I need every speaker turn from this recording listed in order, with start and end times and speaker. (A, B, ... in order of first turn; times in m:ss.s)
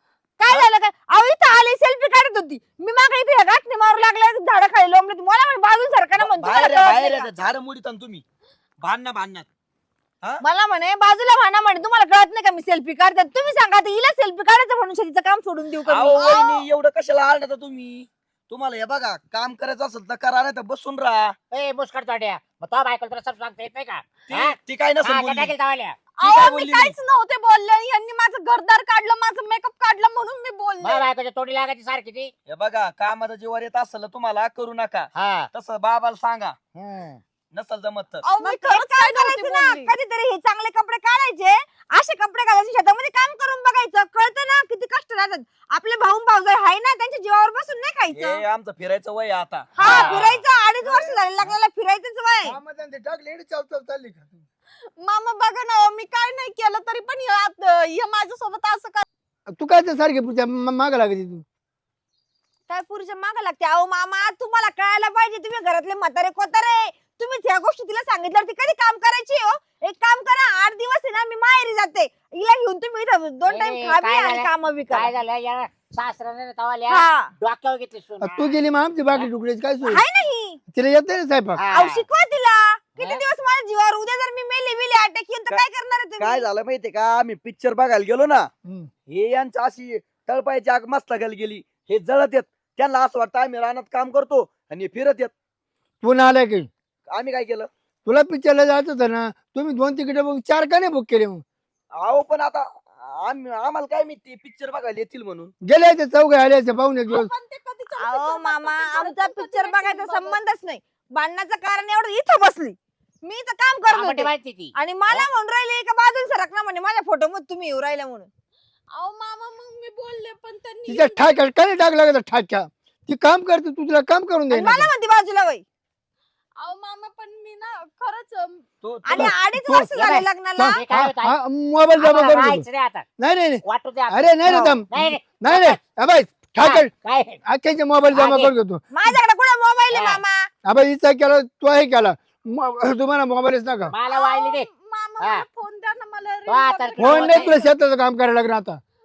0:00.4-0:07.3 A
0:06.2-0:08.2 B
0:08.8-0:09.5 B
0:10.4-0:16.5 A
0:15.9-0:21.4 B
0:16.2-0:16.6 C
0:21.5-0:26.0 D
0:24.3-0:25.5 B
0:26.1-0:31.0 C
0:26.2-0:26.9 B
0:30.8-0:32.3 D
0:32.5-0:36.6 B
0:35.1-0:35.5 D
0:36.8-0:37.2 E
0:37.5-0:38.2 B
0:38.2-0:39.9 C
0:38.4-0:48.4 A
0:48.1-0:50.2 B
0:49.8-0:52.6 A
0:49.8-0:50.4 D
0:50.8-0:51.5 E
0:52.4-0:54.5 E
0:55.0-0:59.0 C
0:59.5-1:01.4 E
1:02.7-1:15.1 A
1:13.5-1:18.5 D
1:16.9-1:17.3 A
1:18.2-1:20.0 E
1:19.8-1:20.6 A
1:20.7-1:21.6 E
1:21.6-1:22.0 D
1:21.7-1:26.5 A
1:23.0-1:23.2 D
1:26.2-1:28.5 B
1:28.6-1:28.9 E
1:29.1-1:35.3 B
1:36.0-1:36.7 E
1:37.1-1:37.7 B
1:38.0-1:41.4 E
1:42.0-1:45.5 B
1:45.6-1:47.3 E
1:47.1-1:50.4 C
1:48.0-1:58.3 A
1:53.9-1:55.3 D
1:59.0-2:01.3 C
2:00.9-2:04.9 E
2:04.5-2:05.6 A
2:06.6-2:08.6 C
2:08.8-2:09.3 B
2:09.0-2:10.8 A
2:09.2-2:10.0 E
2:09.9-2:11.4 D
2:10.6-2:12.6 E
2:12.0-2:13.0 D
2:13.2-2:16.9 E
2:13.6-2:14.2 D
2:14.4-2:14.8 A
2:14.9-2:15.8 D
2:16.6-2:17.4 D
2:17.4-2:18.9 E
2:18.1-2:18.5 D
2:18.9-2:20.5 A
2:19.9-2:20.2 D
2:20.6-2:23.9 E
2:23.9-2:24.7 D
2:24.1-2:27.7 C
2:25.2-2:25.4 D
2:26.5-2:27.6 D
2:27.0-2:28.8 E